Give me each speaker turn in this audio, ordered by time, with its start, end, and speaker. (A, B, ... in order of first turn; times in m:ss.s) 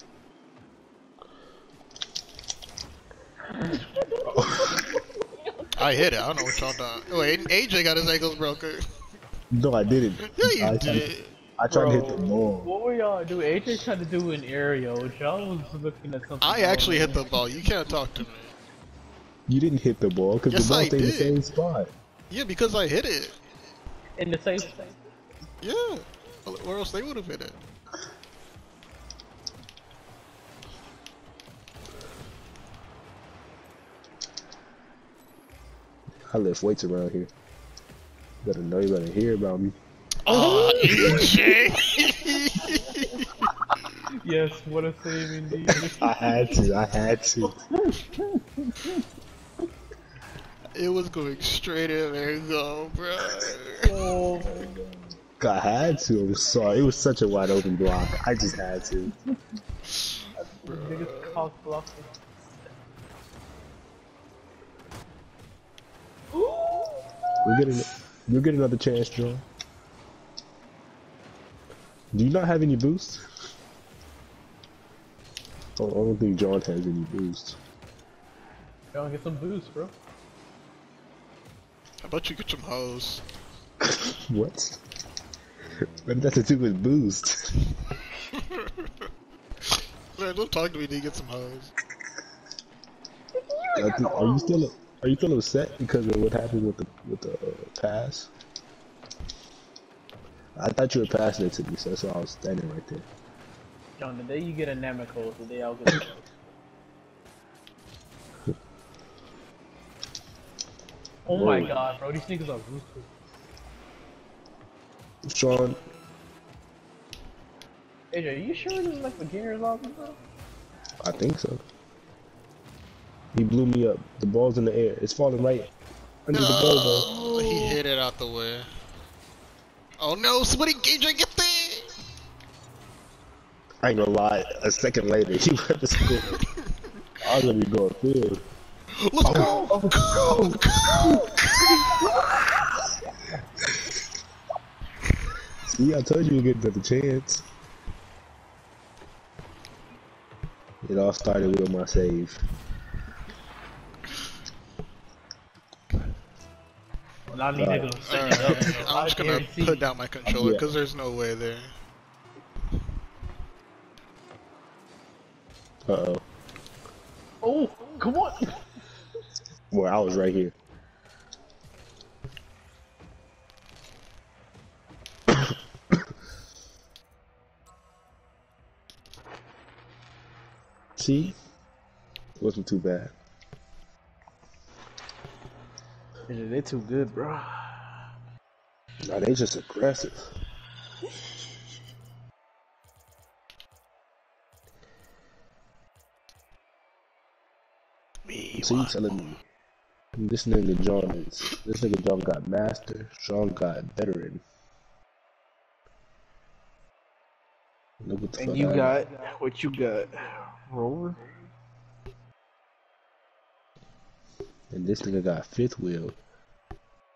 0:03.5-0:05.7 A
0:04.2-0:05.0 B
0:05.8-0:08.8 C
0:09.5-0:12.7 B
0:10.2-0:11.4 C
0:11.7-0:17.3 A
0:16.4-0:18.5 C
0:19.5-0:21.9 B
0:20.5-0:21.4 C
0:22.3-0:23.3 C
0:24.2-0:25.0 A
0:25.6-0:27.6 C
0:36.3-0:37.3 B
0:38.4-0:39.8 B
0:40.2-0:43.9 C
0:40.3-0:41.4 A
0:44.2-0:46.6 A
0:45.5-0:47.6 B
0:47.4-0:49.0 A
0:50.7-0:53.9 C
0:53.8-0:54.7 A
0:54.3-0:59.1 B
1:00.4-1:02.1 A
1:00.6-1:01.5 C
1:06.3-1:07.6 A
1:07.4-1:09.4 B
1:12.1-1:13.2 B
1:15.8-1:17.6 B
1:18.9-1:19.9 A
1:22.0-1:23.2 C
1:23.8-1:24.8 B
1:25.8-1:27.6 B
1:28.3-1:29.1 C
1:30.2-1:31.7 C
1:33.4-1:34.6 A
1:33.7-1:38.3 B
1:40.6-1:43.1 B
1:44.0-1:46.2 A
1:51.2-1:53.1 A
1:51.3-1:51.8 B
1:55.2-1:55.8 B
1:58.1-2:00.2 A
2:01.0-2:01.6 B
2:03.3-2:05.7 B
2:06.2-2:07.1 B
2:06.3-2:08.7 C
2:07.3-2:07.7 A
2:10.0-2:11.9 C
2:13.8-2:16.4 B
2:17.2-2:18.4 B
2:19.0-2:22.0 C
2:19.2-2:21.2 B
2:19.3-2:20.0 A
2:21.9-2:22.7 A
2:25.6-2:27.4 B
2:30.8-2:32.4 B
2:37.3-2:39.8 A
2:37.6-2:37.9 B
2:38.1-2:41.7 C
2:40.2-2:40.7 B
2:45.9-2:46.2 B
2:47.4-2:48.6 A
2:49.7-2:50.5 B
3:01.0-3:01.4 B
3:02.4-3:03.1 B
3:06.3-3:07.9 A
3:09.0-3:10.3 B
3:18.2-3:19.3 C
3:18.6-3:19.4 B
3:20.2-3:24.4 B
3:28.0-3:29.0 B
3:28.4-3:31.3 A
3:34.7-3:36.2 B